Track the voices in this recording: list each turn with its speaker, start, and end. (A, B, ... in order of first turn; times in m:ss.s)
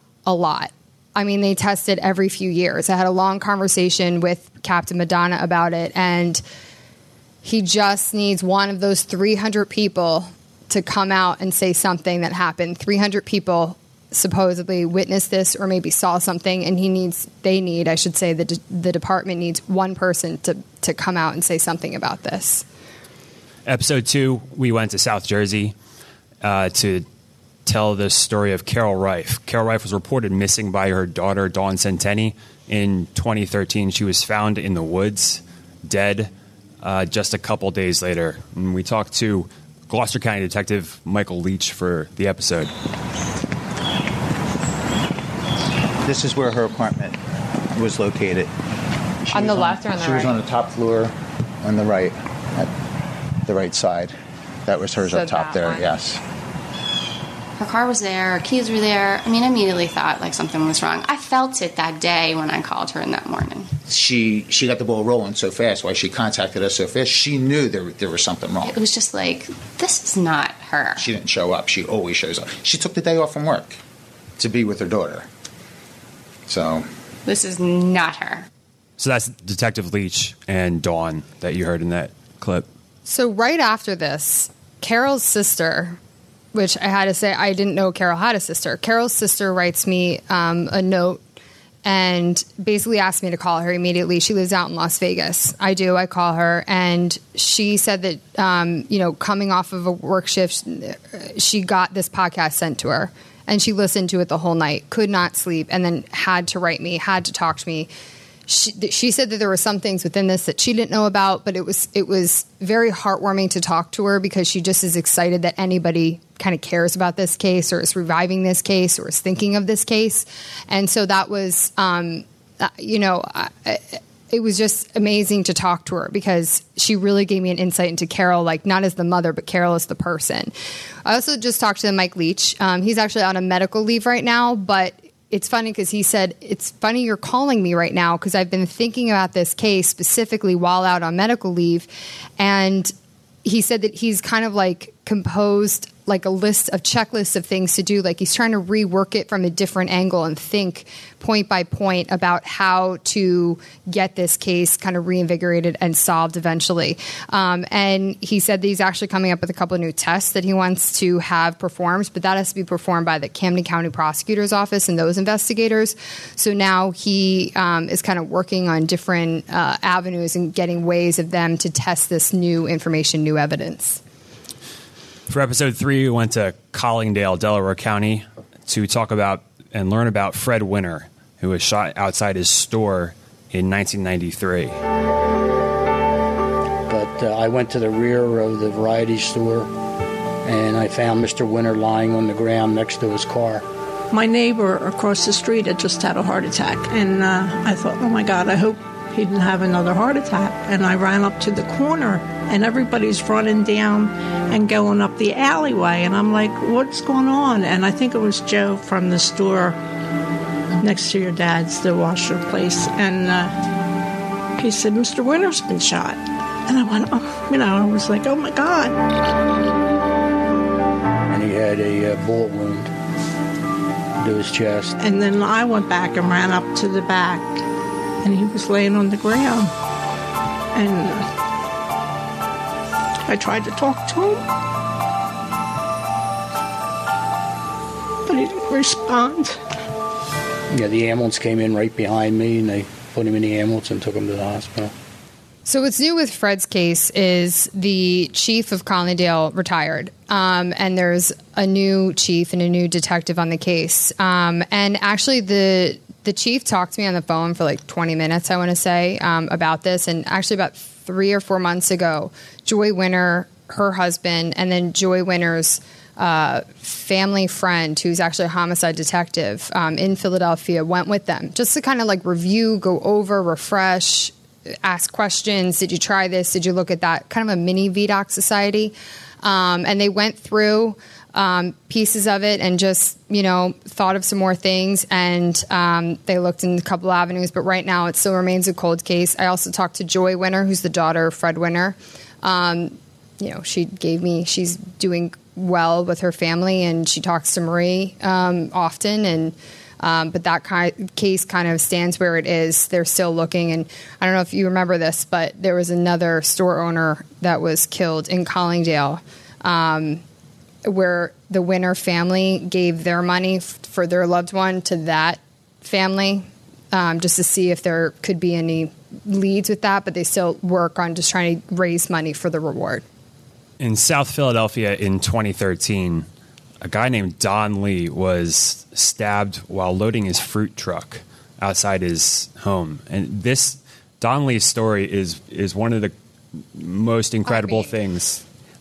0:00.2-0:06.4 A
0:07.4-0:22.6 A
0:23.6-0:25.7 B
0:26.4-0:27.0 B
0:27.6-0:42.7 B
0:46.0-0:47.2 C
0:47.7-0:48.5 C
0:49.3-0:52.7 C
0:49.3-0:50.3 A
0:53.4-0:54.1 C
0:54.6-0:56.2 C
0:55.1-0:55.9 A
0:57.6-1:03.7 D
1:03.8-1:08.8 C
1:08.6-1:11.0 D
1:11.0-1:13.8 C
1:14.4-1:15.3 C
1:16.5-1:16.9 C
1:17.2-1:18.4 D
1:19.0-1:22.7 B
1:23.0-1:26.0 A
1:26.5-1:31.2 A
1:31.8-1:47.9 A
1:48.5-2:10.5 A
2:11.0-2:22.9 A
2:23.4-2:54.0 A
2:55.3-3:04.8 B
3:06.9-3:09.7 E
3:10.4-3:13.6 E
3:14.1-3:29.8 F
3:30.8-3:33.6 F
3:34.6-3:39.2 F
3:41.3-3:42.9 E
3:44.2-3:45.0 E
3:45.0-3:47.6 F
3:48.2-3:49.7 F
3:50.7-3:51.3 F
3:53.3-3:54.4 F
3:58.2-3:59.6 F
4:00.7-4:04.9 E
4:05.6-4:34.3 A
4:34.8-5:10.2 A
5:10.8-5:23.0 A
5:23.8-5:26.2 B
5:26.8-5:36.1 B
5:36.7-5:38.4 B
5:37.4-5:37.9 A